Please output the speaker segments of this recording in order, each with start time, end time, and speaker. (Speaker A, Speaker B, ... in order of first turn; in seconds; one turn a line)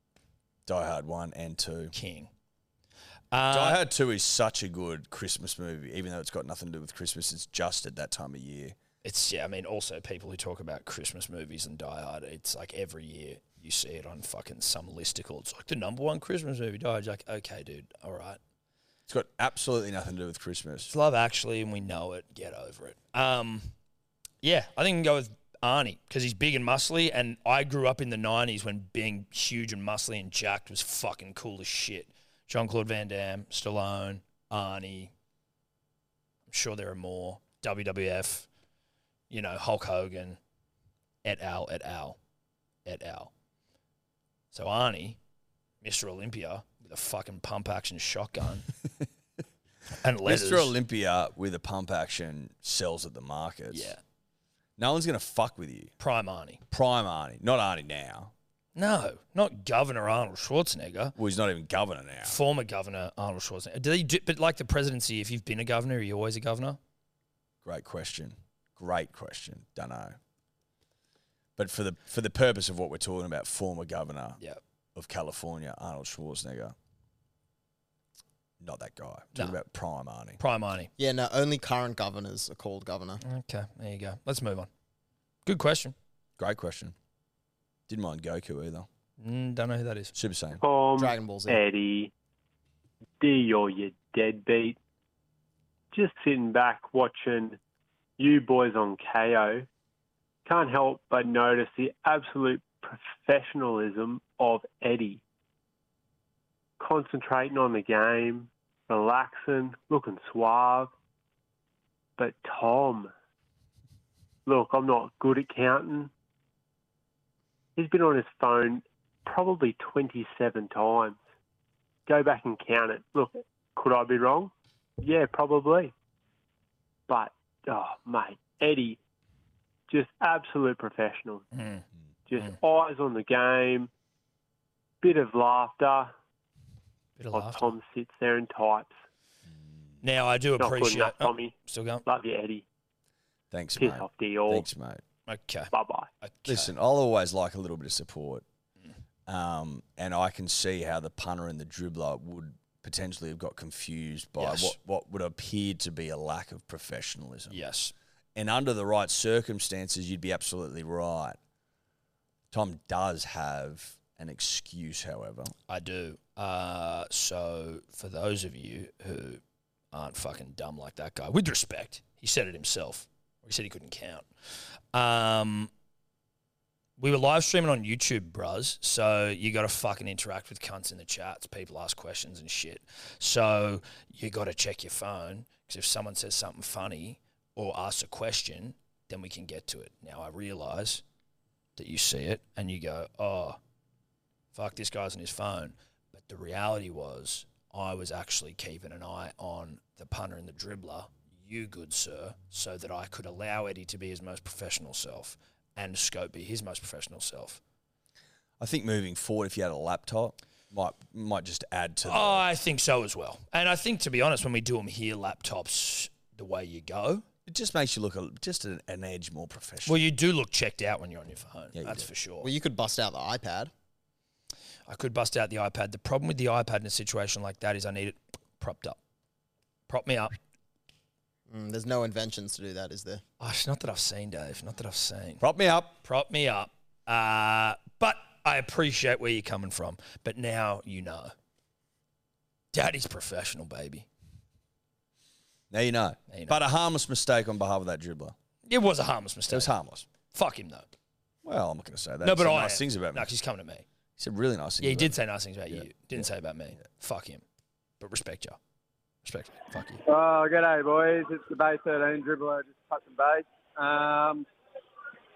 Speaker A: 0.7-1.9
Speaker B: 1.9-2.3
Speaker B: 3.3-3.8
Speaker A: 3.5-8.8
Speaker B: 9.0-18.4
Speaker A: 19.1-20.9
Speaker B: 20.9-23.7
Speaker B: 24.4-35.1
Speaker B: 36.5-38.5
Speaker B: 39.3-40.4
Speaker B: 41.2-42.2
Speaker B: 42.9-43.3
Speaker B: 44.5-45.2
Speaker B: 45.8-48.7
Speaker B: 50.0-50.7
Speaker A: 50.2-54.0
Speaker B: 53.7-54.0
Speaker A: 54.8-55.9
Speaker B: 56.0-56.6
Speaker A: 56.7-58.3
Speaker B: 58.8-61.1
Speaker A: 61.2-62.4
Speaker B: 62.2-66.8
Speaker A: 67.6-70.2
Speaker A: 71.6-74.4
Speaker A: 75.0-76.8
Speaker A: 78.6-80.4
Speaker B: 80.4-80.9
Speaker C: 81.0-83.2
Speaker B: 83.2-84.7
Speaker B: 85.5-86.0
Speaker A: 86.4-87.0
Speaker A: 87.9-88.9
Speaker B: 89.2-90.1
Speaker A: 90.2-90.6
Speaker D: 90.6-92.1
Speaker C: 91.0-91.6
Speaker D: 93.2-94.8
Speaker D: 95.9-97.6
Speaker D: 98.2-99.7
Speaker D: 100.5-105.2
Speaker D: 106.8-110.9
Speaker D: 112.2-113.1
Speaker D: 114.5-116.1
Speaker D: 117.8-121.2
Speaker D: 122.1-125.9
Speaker D: 127.1-129.0
Speaker D: 129.9-131.5
Speaker B: 131.5-132.6
Speaker D: 132.3-133.9
Speaker D: 135.0-136.1
Speaker B: 137.2-137.8
Speaker D: 137.3-139.0
Speaker B: 140.0-142.1
Speaker D: 140.6-141.5
Speaker D: 142.1-142.6
Speaker A: 143.5-145.0
Speaker D: 143.8-144.7
Speaker B: 145.3-145.7
Speaker D: 145.7-146.1
Speaker B: 146.2-146.7
Speaker A: 146.5-148.4
Speaker A: 149.3-157.6
Speaker B: 154.4-154.8
Speaker B: 157.5-157.9
Speaker A: 158.4-161.4
Speaker A: 162.5-165.5
Speaker B: 165.7-169.4
Speaker B: 169.9-174.3
Speaker B: 174.9-175.7
Speaker B: 177.0-191.0
Speaker B: 191.8-193.6
Speaker B: 194.5-207.6
Speaker A: 208.6-212.5
Speaker B: 212.1-217.2
Speaker A: 217.5-220.0
Speaker B: 219.9-222.5
Speaker A: 221.8-222.1
Speaker C: 222.4-223.7
Speaker B: 224.9-229.0
Speaker B: 229.9-230.4
Speaker C: 231.5-233.2
Speaker B: 233.4-235.4
Speaker A: 235.4-236.0
Speaker B: 236.0-241.3
Speaker B: 242.7-244.1
Speaker A: 245.7-248.3
Speaker B: 246.3-246.6
Speaker B: 248.7-249.7
Speaker A: 249.5-250.1
Speaker B: 250.3-250.9
Speaker A: 251.4-253.3
Speaker B: 252.2-253.8
Speaker A: 254.2-255.2
Speaker B: 254.8-257.4
Speaker A: 255.7-256.2
Speaker B: 258.0-258.6
Speaker B: 259.2-260.0
Speaker E: 260.1-264.5